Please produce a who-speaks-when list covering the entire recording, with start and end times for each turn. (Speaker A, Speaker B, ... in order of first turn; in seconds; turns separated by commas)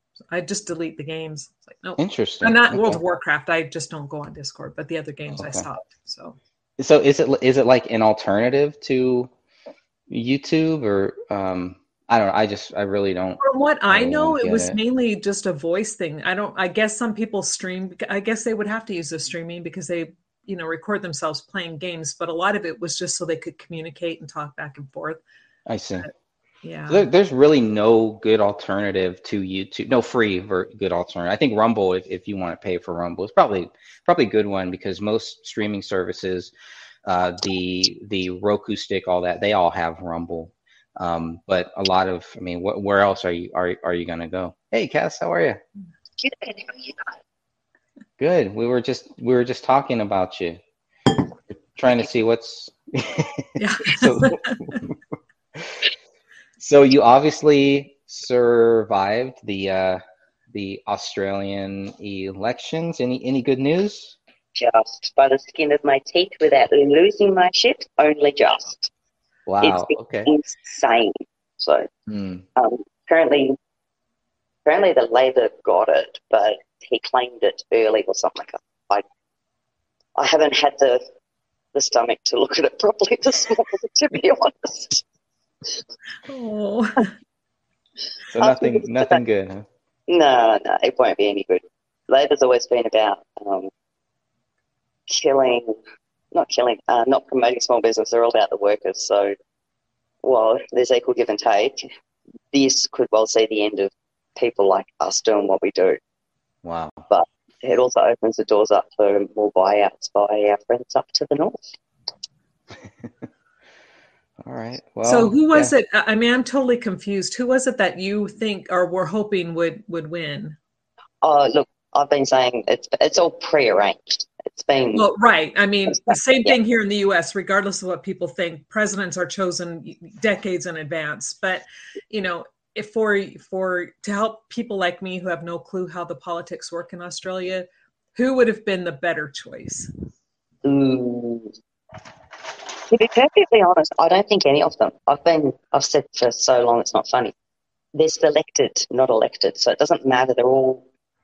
Speaker A: 0.3-6.4, Speaker B: 2.0-3.0, Speaker B: 5.3-5.7, Speaker B: 6.8-9.3, Speaker B: 10.1-14.8, Speaker A: 13.4-25.2, Speaker B: 25.7-26.1, Speaker A: 26.6-27.1, Speaker B: 26.9-36.5, Speaker B: 37.0-45.6, Speaker C: 46.2-47.2, Speaker B: 48.2-50.6, Speaker B: 51.7-55.0, Speaker A: 53.6-54.8, Speaker B: 55.5-55.8, Speaker B: 56.6-60.0, Speaker B: 60.5-64.2, Speaker C: 64.5-68.9, Speaker B: 69.5-70.3, Speaker C: 69.6-71.9, Speaker B: 72.1-72.4, Speaker C: 72.5-73.6, Speaker C: 74.6-79.0, Speaker C: 80.2-81.0, Speaker C: 81.7-85.0, Speaker A: 86.2-87.1, Speaker B: 88.3-89.7, Speaker C: 88.4-89.2, Speaker C: 90.1-93.7, Speaker C: 95.1-95.7, Speaker C: 96.3-99.3, Speaker C: 100.2-101.8, Speaker C: 102.5-106.0, Speaker B: 106.6-107.0, Speaker C: 107.1-111.7, Speaker B: 114.4-115.7, Speaker A: 115.0-120.6, Speaker C: 121.2-125.0, Speaker A: 124.9-139.9, Speaker C: 126.0-126.5, Speaker C: 140.6-141.5, Speaker C: 142.8-147.3, Speaker C: 147.9-150.8